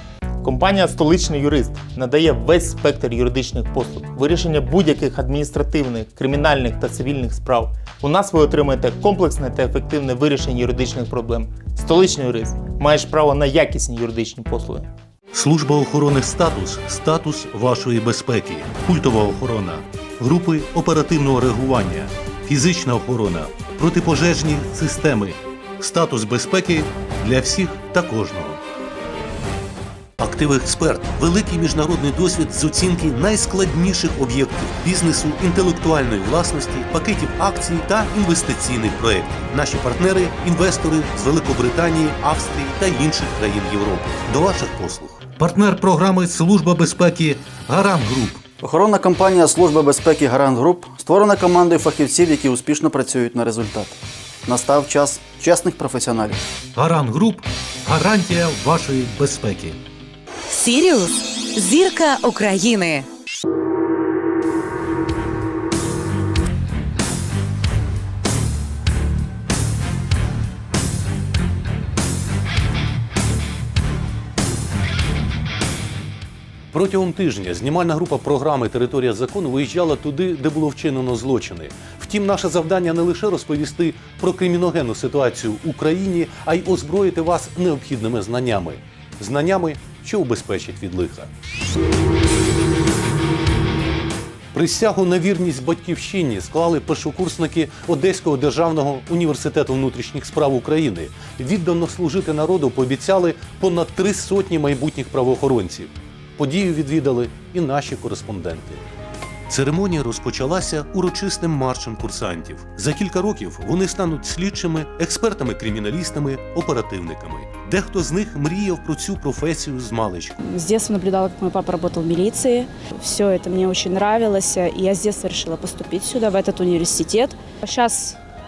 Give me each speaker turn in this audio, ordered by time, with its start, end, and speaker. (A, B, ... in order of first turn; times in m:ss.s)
0:00.4-0:14.9 A
0:15.3-0:28.6 B
0:30.2-0:48.4 B
0:48.6-0:56.4 C
0:56.8-0:59.8 B
1:00.5-1:03.1 D
1:16.7-1:31.3 B
1:34.5-1:48.8 B
1:49.5-2:00.4 B
2:00.4-2:08.2 E